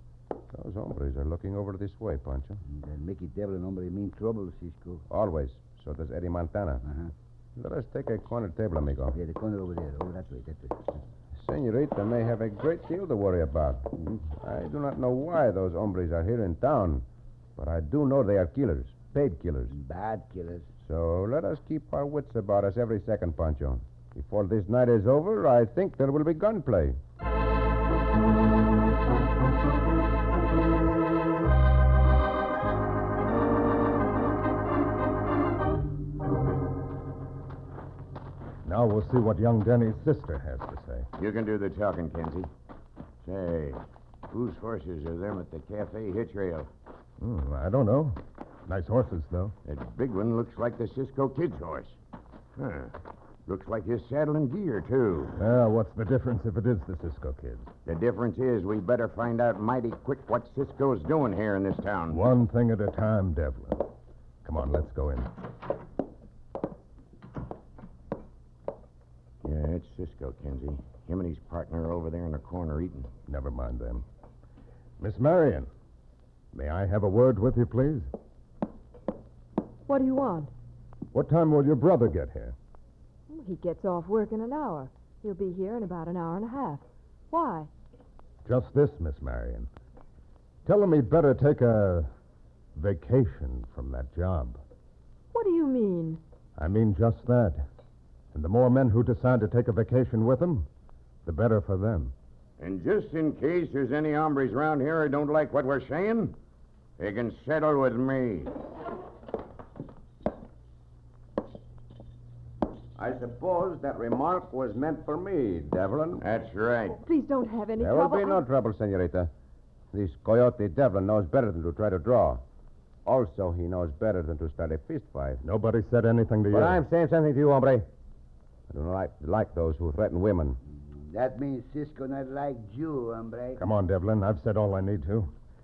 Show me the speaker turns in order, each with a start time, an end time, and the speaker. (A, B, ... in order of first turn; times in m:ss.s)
0:00.5-0:02.6 A
0:02.6-0:05.0 B
0:05.1-0:06.8 A
0:06.8-0:07.1 B
0:07.6-0:09.2 A
0:09.1-0:11.0 B
0:11.4-0:17.0 A
0:17.6-0:19.7 A
0:19.7-0:20.7 B
0:20.8-0:27.0 A
0:38.6-0:41.1 C
0:41.2-0:42.5 D
0:43.2-0:46.7 D
0:47.2-0:49.5 C
0:49.6-0:52.0 D
0:52.6-0:52.9 D
0:53.4-0:55.4 D
0:55.4-0:57.7 C
0:57.8-1:02.2 D
1:02.1-1:03.9 C
1:04.4-1:05.3 C
1:09.4-1:13.1 D
1:13.3-1:14.0 C
1:15.0-1:15.7 C
1:16.5-1:18.1 C
1:19.9-1:20.5 E
1:21.1-1:22.5 C
1:23.3-1:27.7 E
1:28.4-1:29.7 C
1:30.6-1:32.1 C
1:32.7-1:34.6 C
1:35.3-1:36.2 E
1:36.6-1:37.6 C
1:38.3-1:40.7 C
1:41.2-1:42.1 C
1:42.6-1:46.3 D
1:47.0-1:48.5 D
1:53.0-1:56.2 A
1:56.2-1:57.0 D
1:57.0-1:58.4 E
1:57.8-1:59.3 A
1:59.9-2:02.4 A
2:03.0-2:05.4 A
2:05.4-2:06.8 C
2:06.5-2:07.9 A
2:08.7-2:10.6 A
2:10.7-2:13.6 B
2:13.6-2:15.3 C